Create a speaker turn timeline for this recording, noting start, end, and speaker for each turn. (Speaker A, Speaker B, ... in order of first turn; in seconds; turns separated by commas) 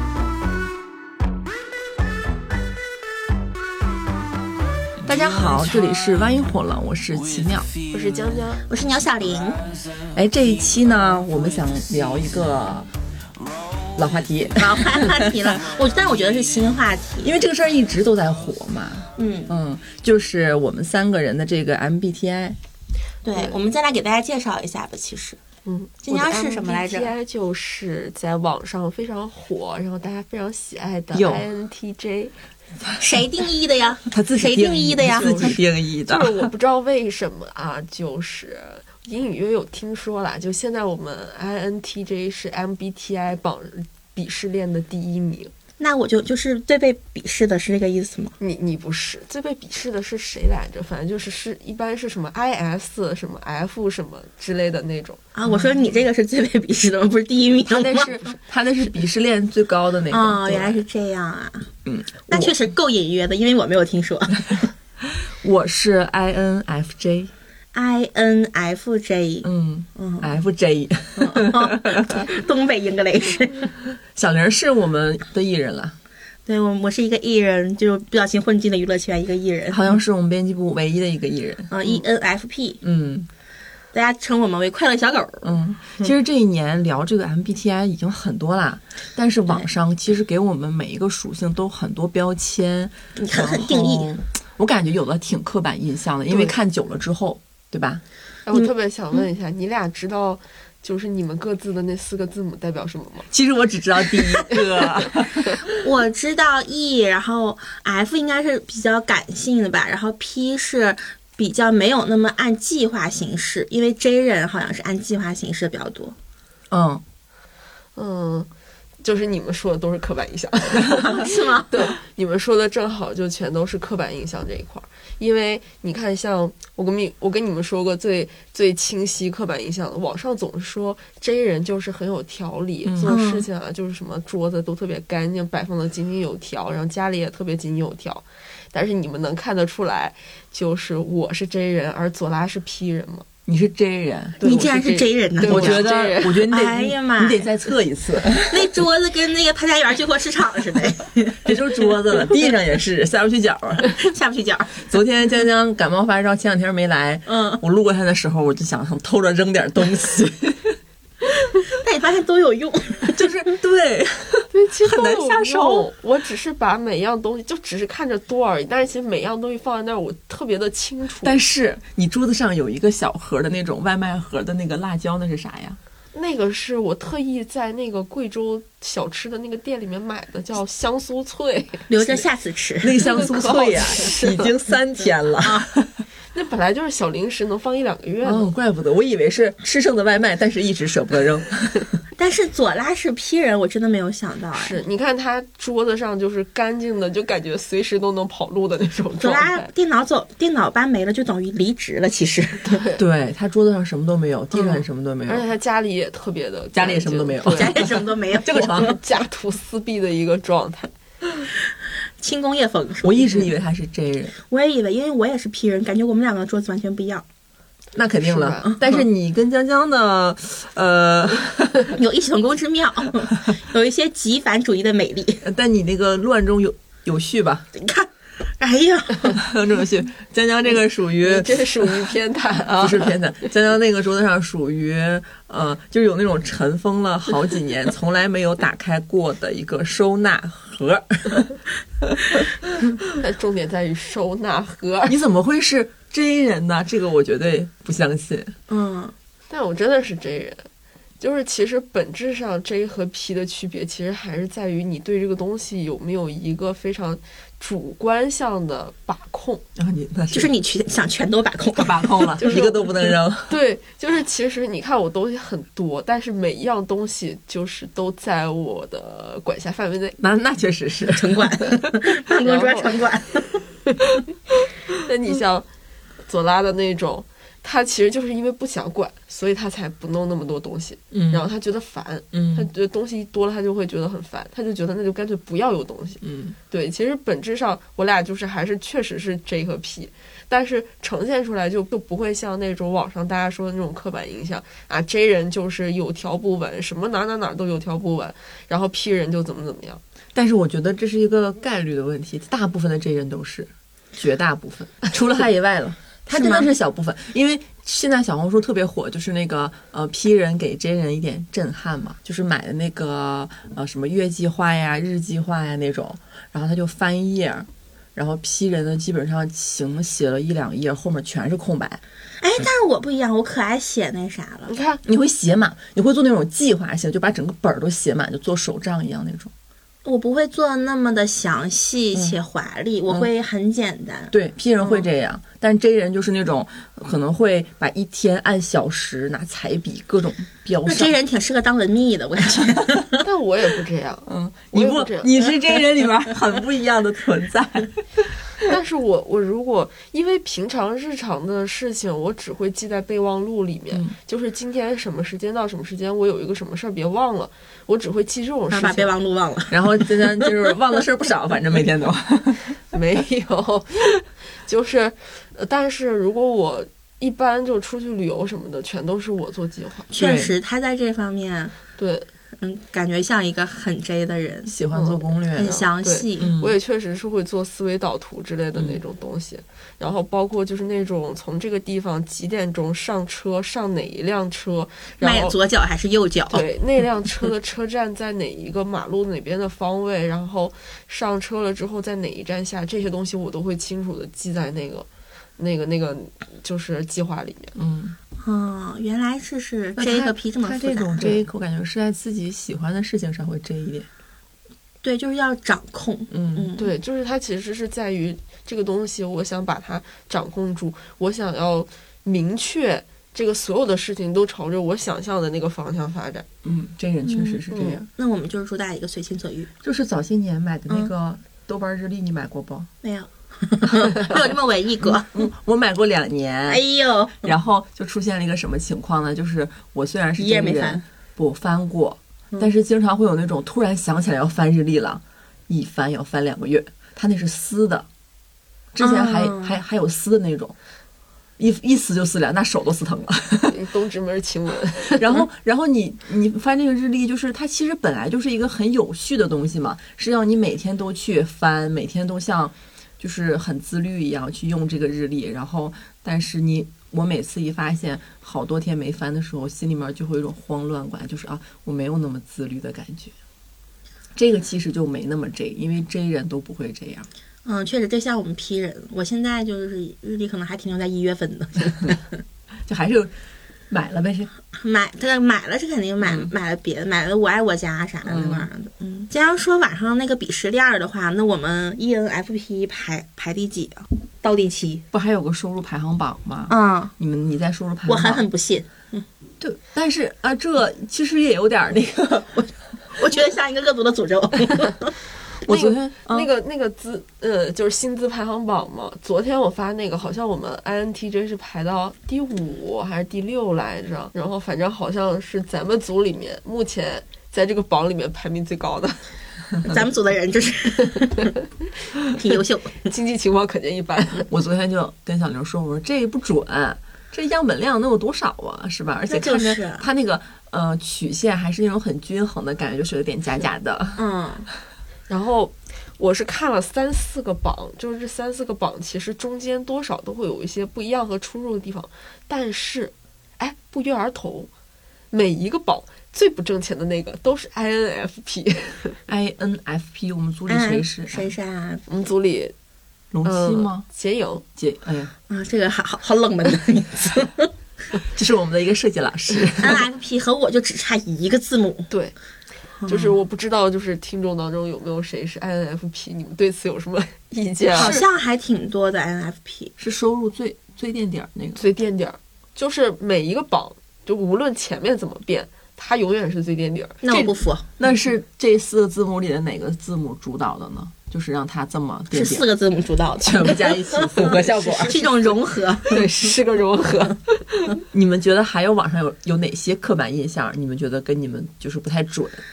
Speaker A: 5.0-7.7, Speaker B: 7.9-8.6, Speaker C: 8.7-9.6, Speaker A: 10.1-12.9, Speaker A: 14.0-15.6, Speaker C: 14.6-17.3, Speaker A: 17.2-22.6, Speaker C: 19.1-19.5, Speaker C: 23.2-25.4, Speaker B: 25.6-32.4, Speaker C: 26.0-27.1, Speaker A: 31.1-31.4, Speaker C: 33.0-35.6, Speaker A: 34.1-36.5, Speaker B: 35.3-45.5, Speaker C: 45.8-48.3, Speaker B: 48.4-55.2, Speaker C: 55.4-58.1, Speaker A: 57.7-60.8, Speaker C: 60.1-61.7, Speaker A: 61.9-62.5, Speaker C: 62.3-64.7, Speaker A: 65.0-67.3, Speaker C: 67.7-70.3, Speaker A: 69.4-72.2, Speaker C: 71.2-73.7, Speaker A: 74.2-76.0, Speaker C: 76.5-79.8, Speaker A: 79.7-82.0, Speaker C: 81.7-82.8, Speaker A: 82.8-83.3, Speaker C: 83.9-86.1, Speaker A: 85.4-98.0, Speaker C: 93.2-94.1, Speaker C: 96.3-96.5, Speaker B: 98.5-103.3, Speaker A: 103.3-105.6, Speaker C: 105.8-116.2, Speaker A: 116.7-117.0, Speaker B: 118.0-118.5, Speaker B: 119.0-143.3, Speaker C: 121.0-121.7, Speaker A: 132.8-133.2, Speaker C: 133.1-133.5, Speaker A: 143.5-144.4, Speaker B: 144.4-146.4, Speaker C: 144.4-145.9, Speaker A: 145.5-148.8, Speaker C: 146.5-147.5, Speaker C: 148.3-151.5, Speaker A: 151.4-153.9, Speaker C: 153.9-154.8, Speaker A: 154.8-160.8, Speaker C: 157.3-157.6, Speaker C: 161.8-163.2, Speaker A: 163.1-165.9, Speaker B: 164.5-171.4, Speaker A: 171.2-175.8, Speaker B: 176.1-182.2, Speaker C: 181.9-182.9, Speaker A: 182.8-186.0, Speaker B: 183.0-184.5, Speaker B: 186.3-188.5, Speaker A: 188.2-191.9, Speaker C: 192.2-194.8, Speaker B: 194.5-199.7, Speaker C: 199.2-202.8, Speaker A: 202.9-205.5, Speaker B: 205.3-207.9, Speaker A: 206.7-209.0, Speaker C: 207.5-209.0, Speaker B: 208.7-210.9, Speaker C: 212.2-213.4, Speaker A: 213.0-214.4, Speaker C: 214.4-217.2, Speaker A: 217.9-221.9, Speaker B: 218.2-218.7, Speaker C: 218.7-219.0, Speaker C: 221.9-225.4, Speaker A: 225.4-227.7, Speaker C: 227.7-229.4, Speaker A: 229.4-241.6, Speaker B: 231.2-233.2, Speaker A: 242.1-242.4, Speaker B: 243.2-245.2, Speaker A: 245.1-248.6, Speaker C: 248.7-249.1, Speaker B: 249.5-250.7, Speaker B: 251.2-259.6, Speaker A: 259.8-260.5, Speaker C: 260.3-262.6, Speaker A: 261.8-263.5, Speaker B: 262.4-262.9, Speaker B: 263.5-270.2, Speaker A: 270.2-271.8, Speaker C: 271.1-273.6, Speaker B: 272.3-273.1, Speaker B: 275.0-275.7, Speaker B: 276.2-300.0, Speaker A: 281.1-281.4, Speaker A: 282.3-282.7, Speaker A: 286.2-286.6, Speaker A: 300.4-322.0, Speaker C: 306.3-306.7, Speaker C: 322.4-324.7, Speaker B: 324.7-325.0, Speaker A: 325.1-329.5, Speaker C: 330.1-335.1, Speaker A: 334.3-341.1, Speaker C: 340.9-343.2, Speaker B: 343.2-345.5, Speaker A: 344.3-348.3, Speaker B: 348.6-359.1, Speaker C: 358.7-359.8, Speaker A: 359.7-362.8, Speaker B: 362.9-370.1, Speaker C: 370.1-371.8, Speaker A: 370.2-370.5, Speaker B: 372.0-372.3, Speaker C: 372.6-374.7, Speaker A: 374.7-375.8, Speaker B: 374.9-385.6, Speaker C: 375.6-376.5, Speaker A: 376.4-376.7, Speaker C: 385.2-386.7, Speaker B: 386.5-395.1, Speaker B: 395.6-397.7, Speaker A: 397.8-398.2, Speaker C: 398.4-401.4, Speaker A: 400.0-404.1, Speaker C: 405.0-406.9, Speaker A: 406.3-406.7, Speaker B: 406.8-416.5, Speaker A: 416.6-418.1, Speaker C: 417.2-419.7, Speaker A: 419.8-422.9, Speaker C: 423.0-425.4, Speaker A: 425.0-426.8, Speaker C: 426.7-427.5, Speaker A: 427.4-438.1, Speaker C: 430.4-431.0, Speaker A: 438.9-440.8, Speaker C: 439.0-439.8, Speaker A: 441.6-443.7, Speaker B: 443.7-445.4, Speaker A: 445.2-463.3, Speaker A: 464.4-467.3, Speaker C: 467.6-472.4, Speaker A: 472.9-473.3, Speaker A: 473.9-474.5, Speaker C: 474.7-485.1, Speaker A: 478.2-478.7, Speaker A: 485.1-488.5, Speaker C: 486.7-487.1, Speaker C: 488.1-489.3, Speaker A: 489.6-492.6, Speaker C: 493.1-495.1, Speaker A: 495.6-496.5, Speaker B: 495.7-509.2, Speaker C: 509.8-511.6, Speaker C: 512.3-513.1, Speaker B: 513.0-514.5, Speaker A: 514.5-524.2, Speaker C: 519.3-520.1, Speaker C: 524.2-524.7, Speaker B: 525.3-534.7, Speaker B: 535.3-539.2, Speaker A: 539.3-541.5, Speaker C: 540.7-542.0, Speaker B: 542.1-542.7, Speaker A: 543.3-544.1, Speaker B: 543.5-544.6, Speaker A: 544.8-545.3, Speaker C: 545.5-547.7, Speaker A: 548.3-550.0, Speaker C: 549.8-552.1, Speaker B: 552.1-552.4, Speaker C: 553.0-553.4, Speaker B: 553.0-558.2, Speaker C: 557.9-559.9, Speaker A: 558.0-558.2, Speaker A: 560.0-561.8, Speaker B: 561.8-567.5, Speaker C: 567.2-567.9, Speaker A: 568.0-572.7, Speaker C: 572.3-576.3, Speaker A: 573.4-575.5, Speaker B: 576.1-578.0, Speaker A: 578.1-582.6